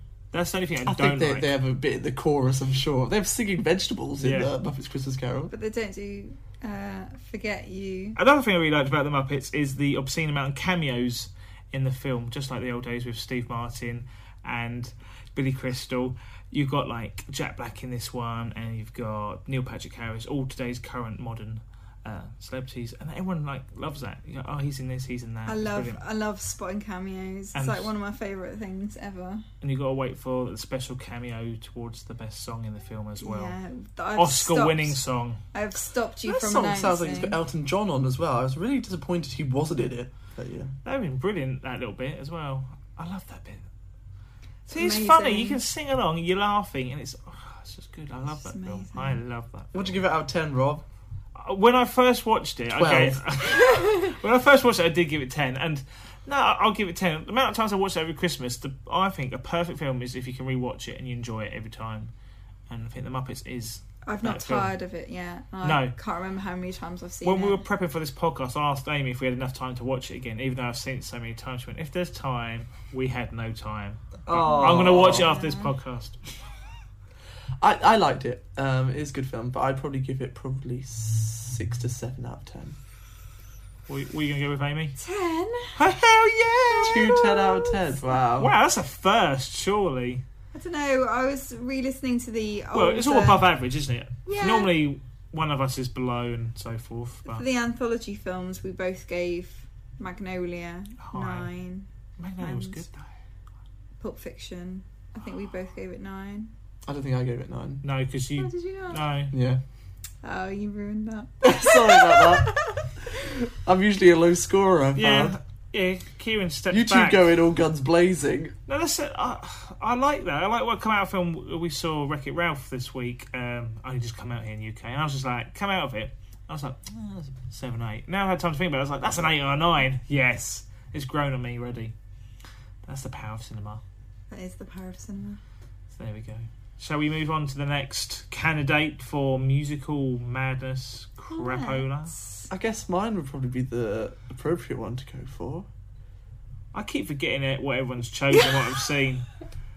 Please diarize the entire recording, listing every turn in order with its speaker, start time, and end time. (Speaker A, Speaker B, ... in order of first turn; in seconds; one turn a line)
Speaker A: 0.3-1.5
Speaker B: 0.9-5.5
Speaker A: 4.2-4.5
Speaker C: 5.5-8.2
Speaker A: 8.2-26.0
Speaker C: 25.5-29.4
Speaker A: 27.5-27.9
Speaker A: 29.6-33.5
Speaker C: 33.2-35.0
Speaker A: 34.2-35.4
Speaker C: 35.5-37.4
Speaker B: 36.2-40.7
Speaker A: 40.9-43.6
Speaker A: 44.7-50.0
Speaker C: 44.7-45.6
Speaker C: 48.4-49.2
Speaker B: 49.7-50.8
Speaker A: 51.4-62.1
Speaker B: 52.7-53.2
Speaker C: 53.4-54.0
Speaker A: 62.7-64.7
Speaker C: 64.1-67.6
Speaker A: 65.6-65.9
Speaker A: 67.2-76.3
Speaker B: 74.3-75.3
Speaker C: 74.5-75.7
Speaker B: 77.6-82.8
Speaker A: 83.9-85.0
Speaker C: 85.0-85.8
Speaker A: 85.8-87.5
Speaker C: 86.8-87.4
Speaker B: 86.8-88.5
Speaker A: 88.4-90.2
Speaker C: 90.5-93.4
Speaker A: 92.7-97.4
Speaker C: 94.2-94.7
Speaker C: 97.2-101.9
Speaker A: 101.0-101.5
Speaker A: 102.2-103.1
Speaker C: 102.4-102.8
Speaker C: 104.0-106.5
Speaker B: 106.9-107.8
Speaker A: 107.8-109.3
Speaker C: 108.4-109.0
Speaker B: 109.3-109.6
Speaker C: 110.2-112.9
Speaker B: 111.4-115.4
Speaker A: 115.0-117.3
Speaker B: 116.7-118.5
Speaker A: 118.7-131.9
Speaker A: 132.9-133.8
Speaker C: 134.3-135.4
Speaker A: 135.9-142.1
Speaker C: 141.3-142.5
Speaker B: 142.5-145.7
Speaker A: 146.7-149.3